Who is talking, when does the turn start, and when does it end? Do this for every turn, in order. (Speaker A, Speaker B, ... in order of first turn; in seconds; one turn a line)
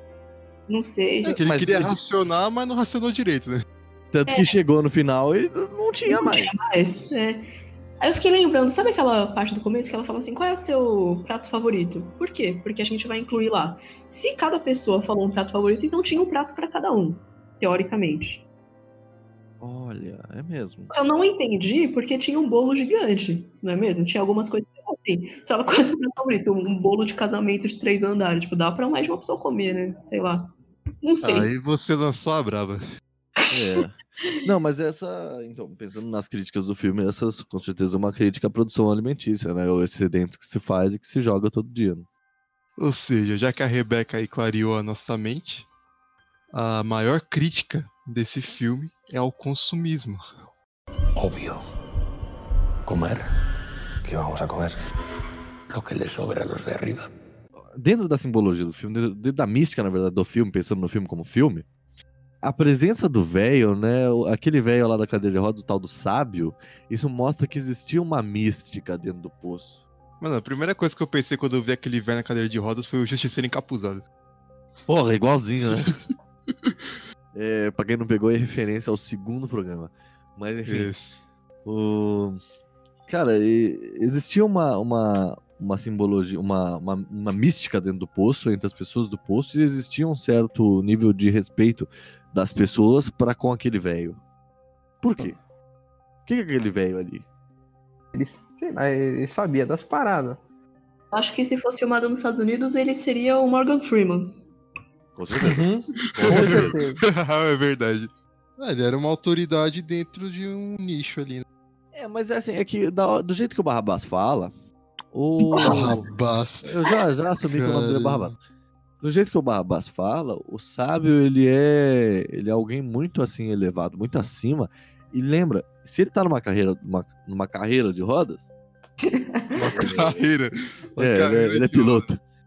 Speaker A: 0.7-1.4
Speaker B: 1.2-3.6
Speaker C: 1.4-1.9
Speaker C: 4.1-6.5
Speaker A: 6.0-7.4
Speaker A: 8.0-18.4
Speaker C: 19.6-20.9
Speaker A: 20.9-30.5
Speaker A: 31.0-31.5
Speaker B: 31.2-32.8
Speaker C: 33.5-42.0
Speaker B: 42.8-45.7
Speaker B: 46.5-50.2
Speaker D: 51.2-51.6
Speaker D: 52.9-53.3
Speaker D: 54.0-54.8
Speaker D: 55.7-57.1
Speaker C: 57.7-61.6
Speaker C: 62.4-69.8
Speaker B: 70.2-74.0
Speaker C: 74.9-76.0
Speaker C: 77.3-80.9
Speaker B: 80.7-81.2
Speaker C: 81.6-82.4
Speaker C: 83.1-94.2
Speaker C: 95.0-95.4
Speaker C: 96.2-97.2
Speaker E: 98.1-100.4
Speaker A: 101.1-104.3
Speaker C: 105.1-105.6
Speaker E: 105.4-107.0
Speaker C: 106.1-106.8
Speaker B: 106.2-111.4
Speaker C: 111.9-114.5
Speaker C: 115.1-116.1
Speaker A: 115.5-116.0
Speaker B: 115.6-116.7
Speaker C: 116.6-118.3
Speaker B: 117.5-118.3
Speaker C: 119.0-128.5
Speaker A: 129.1-129.9
Speaker B: 129.6-132.1
Speaker C: 129.7-130.2
Speaker C: 131.0-132.2